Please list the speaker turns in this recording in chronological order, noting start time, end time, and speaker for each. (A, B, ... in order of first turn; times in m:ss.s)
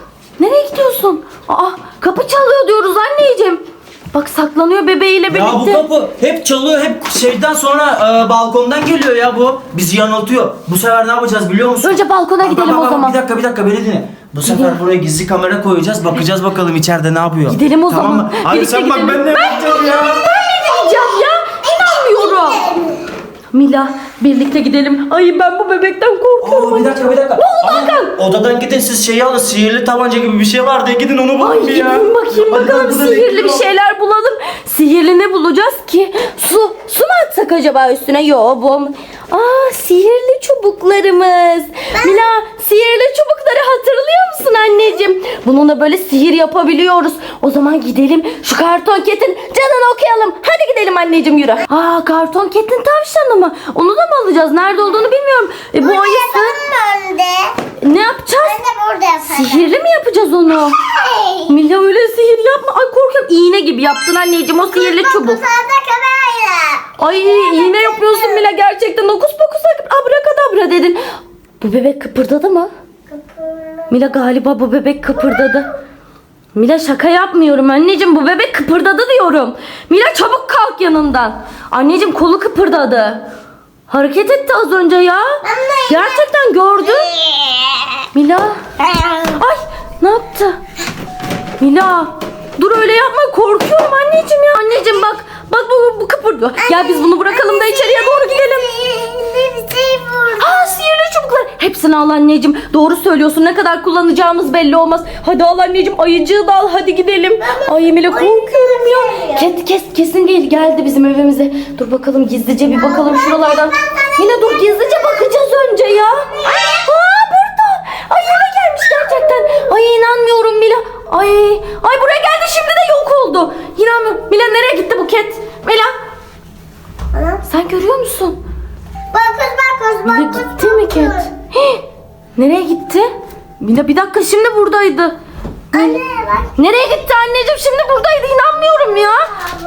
0:00.4-0:03.6 A
0:04.1-0:05.8 A
0:05.3-0:20.2 B
0:11.8-0:13.2 A
0:14.4-0:14.8 A
0:17.5-0:22.7 A
0:20.3-0:21.1 C
0:21.6-0:23.0 C
0:23.5-0:28.2 A
0:26.4-0:33.6 B
0:31.4-0:56.6 A
0:55.8-0:57.6 C
0:57.8-0:58.6 A
0:58.4-0:59.7 C
0:59.3-1:00.8 A
1:00.8-1:01.5 C
1:01.4-1:05.4 A
1:04.7-1:08.4 C
1:07.0-1:11.0 A
1:11.6-1:12.7 A
1:13.1-1:13.9 C
1:13.9-1:15.7 A
1:16.5-1:23.2 A
1:23.9-1:27.1 A
1:25.4-1:26.2 C
1:27.0-1:28.0 C
1:28.1-1:28.7 A
1:28.8-1:29.3 C
1:29.3-1:30.6 A
1:31.6-1:38.7 A
1:36.6-1:40.6 C
1:40.4-2:05.9 A
1:47.6-1:49.4 C
1:52.8-1:54.4 C
2:07.1-2:07.4 C
2:07.4-2:08.4 A
2:09.1-2:11.2 C
2:10.0-2:11.8 A
2:12.4-2:15.2 A
2:15.7-2:16.0 A
2:15.7-2:16.5 C
2:16.6-2:19.3 A